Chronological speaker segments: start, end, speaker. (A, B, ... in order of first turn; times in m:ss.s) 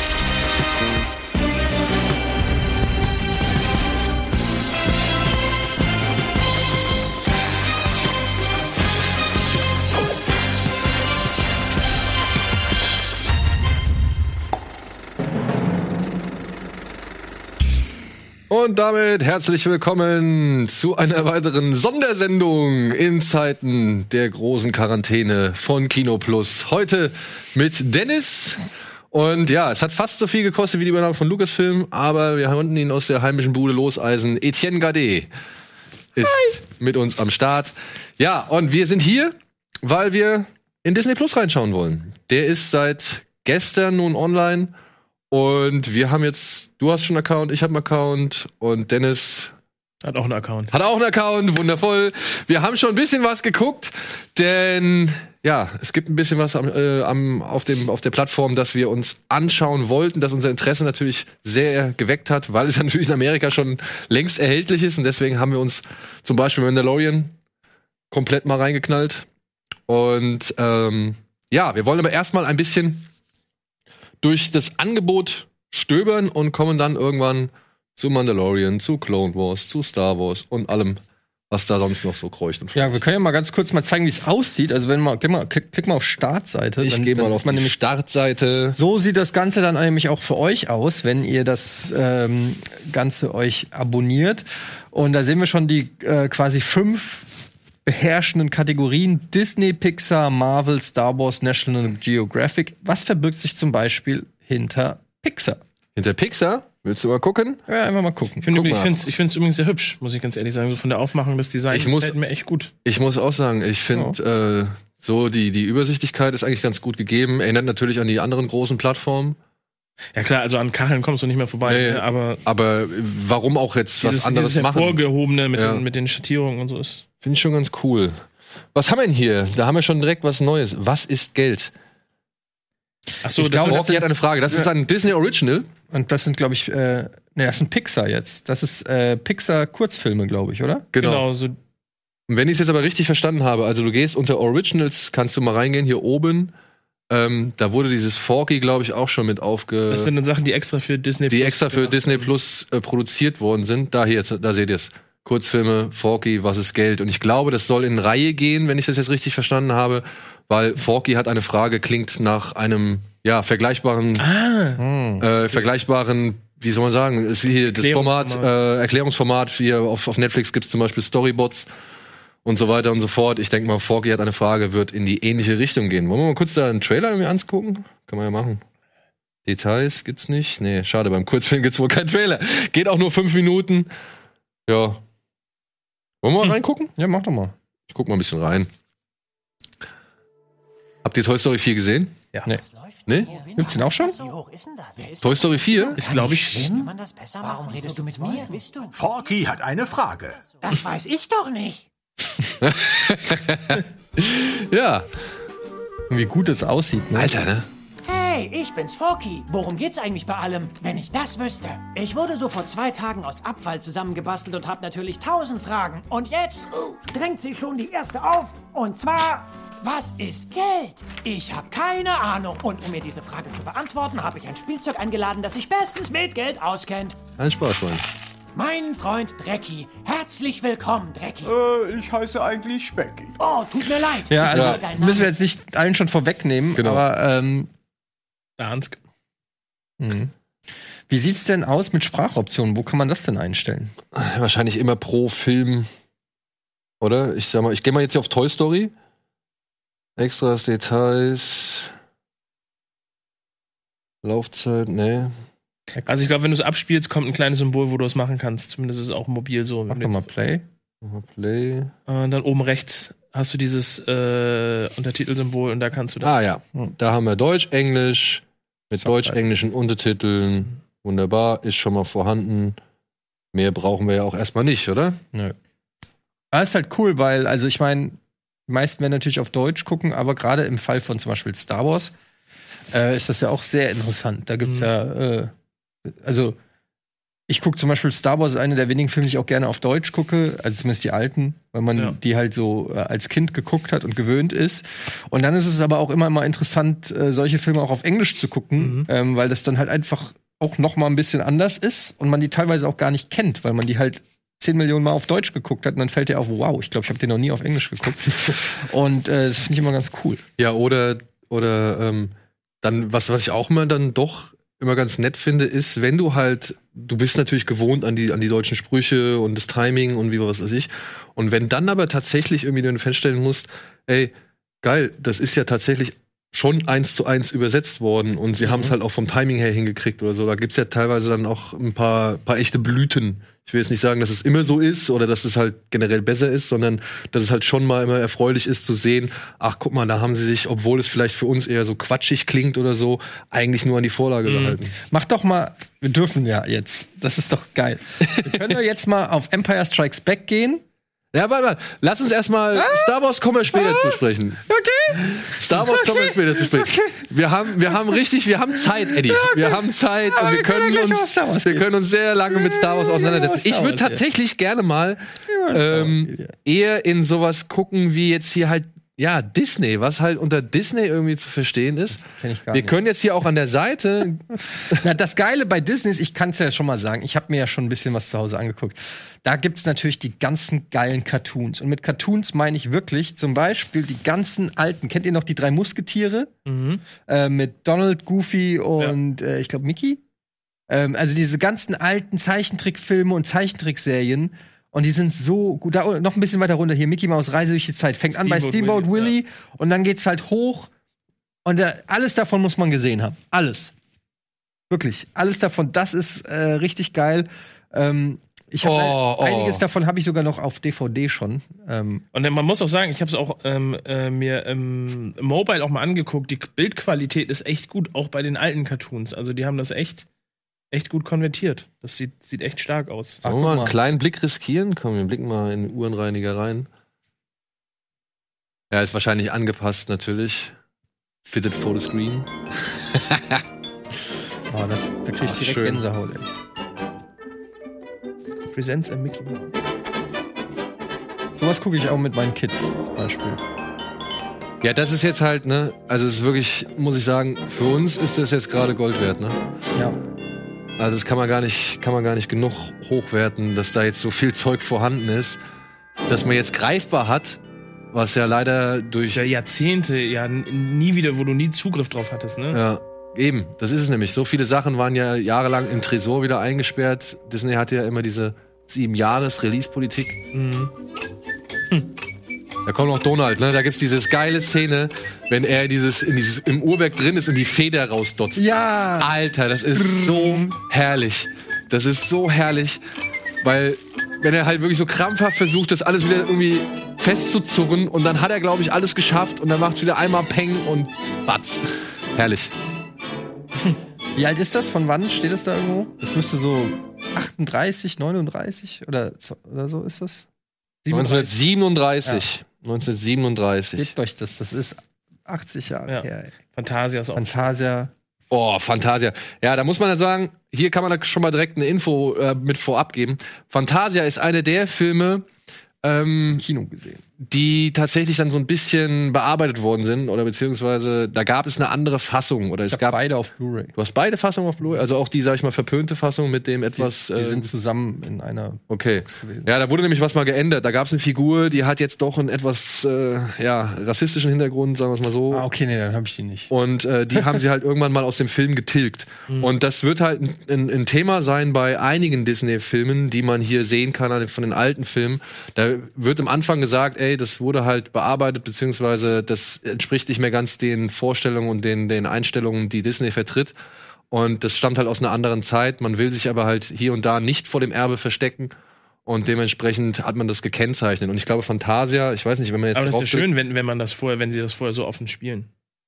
0:18.5-0:35.3 A
0:36.2-0:44.7 A
0:36.2-0:36.6 B
0:45.3-0:49.5 A
0:50.0-0:50.7 C
0:50.7-1:07.3 A
1:08.1-1:09.3 A
1:09.9-1:13.1 A
1:14.2-1:23.0 A
1:22.8-1:27.8 B
1:26.8-1:28.8 A
1:28.8-1:45.6 B
1:46.0-1:47.6 A
1:47.7-1:48.5 B
1:48.4-1:52.7 C
1:48.6-1:49.0 A
1:51.7-1:52.2 A
1:52.8-1:59.4 A
2:00.2-2:02.4 C
2:01.7-2:05.0 A
2:04.0-2:07.1 C
2:05.5-2:05.8 A
2:07.2-2:08.2 A
2:08.7-2:11.7 A
2:13.2-2:13.9 C
2:13.4-2:14.7 B
2:13.5-2:15.7 A
2:15.9-2:20.9 B
2:20.9-2:21.2 A
2:21.0-2:21.6 C
2:22.3-2:26.5 A
2:27.1-2:30.1 A
2:29.9-2:32.3 C
2:31.3-2:44.2 A
2:44.2-2:44.8 C
2:44.8-2:45.3 B
2:45.2-2:51.7 A
2:47.6-2:48.5 C
2:52.4-2:58.6 A
2:59.5-3:03.9 A
3:04.7-3:05.0 A
3:06.2-3:06.9 A
3:07.0-3:07.5 B
3:07.9-3:08.7 A
3:11.0-3:12.2 A
3:12.6-3:19.1 D
3:13.6-3:14.2 B
3:15.2-3:16.0 A
3:16.0-3:16.9 C
3:18.9-3:20.5 E
3:20.6-3:21.9 D
3:22.6-3:25.1 A
3:26.1-3:27.4 B
3:27.2-3:27.7 A
3:28.0-3:47.2 D
3:47.4-3:48.1 A
3:48.6-3:51.6 D
3:51.4-3:53.4 E
3:53.4-3:55.3 D
3:54.3-3:57.7 B
3:54.5-3:54.8 A
3:56.8-3:57.0 A
3:58.6-3:59.0 C
4:00.0-4:00.3 B
4:01.1-4:04.0 B
4:04.1-4:05.9 A
4:07.0-4:08.9 A
4:10.2-4:11.9 A
4:14.2-4:15.3 A
4:15.9-4:16.3 B
4:16.1-4:20.3 C
4:19.9-4:20.6 B
4:21.0-4:21.9 A
4:22.1-4:26.3 C
4:26.2-4:32.8 A
4:29.0-4:29.4 B
4:33.5-4:35.2 A
4:36.5-4:42.1 B
4:42.9-4:45.5 B
4:44.6-4:44.9 C
4:46.1-4:46.6 B
4:47.5-5:10.4 B
4:58.8-4:59.1 C
5:10.6-5:45.0 A
5:28.6-5:29.0 B
5:44.4-5:44.8 C
5:45.0-5:50.8 B
5:48.3-5:48.6 A
5:51.3-5:54.6 A
5:52.7-5:53.2 B
5:53.7-5:57.3 B
5:55.2-6:14.4 A
5:57.9-5:58.2 B
5:58.8-6:01.9 B
6:02.5-6:04.2 B
6:05.5-6:06.6 B
6:12.2-6:13.0 B
6:14.9-6:26.5 B
6:26.7-6:27.0 C
6:27.3-6:30.2 B
6:30.9-6:40.9 B
6:38.3-6:39.4 C
6:41.6-6:43.9 B
6:44.9-6:52.2 B
6:48.8-6:49.8 A
6:52.3-7:00.3 C
7:00.9-7:03.4 C
7:03.4-7:04.0 B
7:03.4-7:06.9 A
7:08.9-7:10.7 A
7:11.5-7:13.6 A
7:14.7-7:16.5 B
7:15.4-7:16.0 A
7:18.7-7:19.8 C
7:21.6-7:23.6 B
7:24.8-7:29.6 A
7:31.0-7:35.6 A
7:36.3-7:37.6 A
7:38.1-7:39.4 A
7:39.3-7:42.8 C
7:42.7-7:50.4 A
7:50.5-7:50.9 C
7:52.9-7:58.7 A
7:58.6-7:59.3 B
7:59.2-8:03.0 A
7:59.9-8:00.7 B
8:03.6-8:12.7 A
8:14.4-8:20.5 B
8:21.0-8:21.5 C
8:21.1-8:24.1 A
8:24.0-8:26.5 B
8:26.1-8:27.7 C
8:27.4-8:28.1 B
8:28.5-8:35.5 A
8:36.0-8:36.6 A
8:36.5-8:37.2 B
8:37.4-8:43.2 A
8:42.9-8:43.9 B
8:44.0-8:47.7 A
8:47.0-8:49.7 B
8:48.9-8:55.6 A
8:55.5-8:56.7 B
8:56.7-9:13.8 A
8:57.3-8:57.6 B
9:14.3-9:18.7 A
9:19.3-9:23.5 A
9:23.0-9:25.7 C